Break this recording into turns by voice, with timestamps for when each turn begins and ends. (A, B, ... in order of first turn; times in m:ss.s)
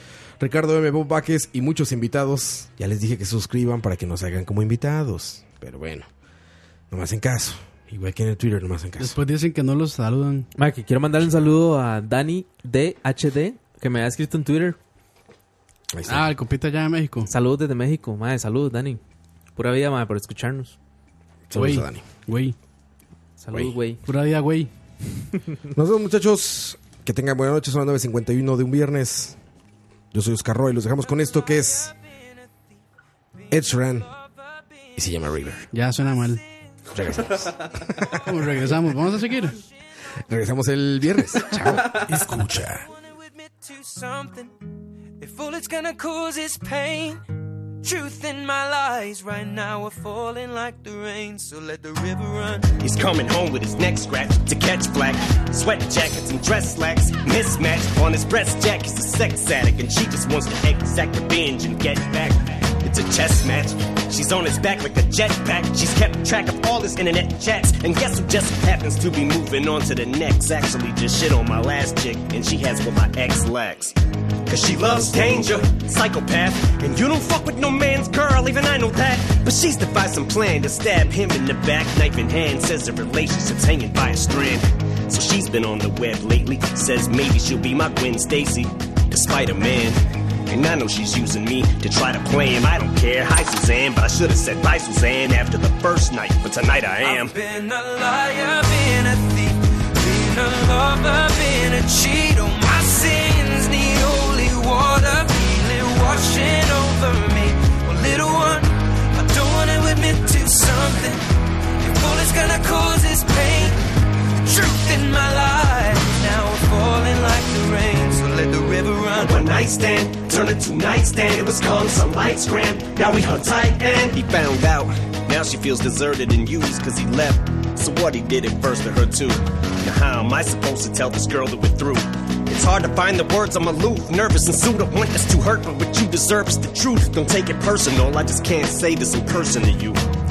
0:00.4-0:06.1 A
0:06.9-0:09.2 A
0:09.0-0:10.5 B
0:10.6-0:14.8 C
0:15.9-0:16.3 A
0:16.1-0:17.3 B
0:17.3-0:19.0 C
0:19.6-0:20.8 C
0:21.5-0:22.0 A
0:21.6-0:22.6 B
0:23.4-0:24.0 C
0:24.0-0:24.7 B
0:25.7-0:29.4 A
0:30.1-0:31.9 A
0:31.3-0:31.9 D
0:33.5-0:34.1 A
0:33.5-0:35.1 D
0:35.0-0:35.7 A
0:35.7-0:36.4 B
0:36.0-0:36.8 D
0:36.9-0:38.8 A
0:38.2-0:39.6 B
0:40.3-0:42.9 A
0:42.7-0:44.6 D
0:45.2-0:47.2 D
0:47.8-0:52.7 D
0:52.8-1:14.0 E
1:14.5-1:37.4 E
1:37.0-1:51.2 D
1:51.8-1:53.8 D
1:54.4-1:59.5 D
1:59.2-2:20.0 E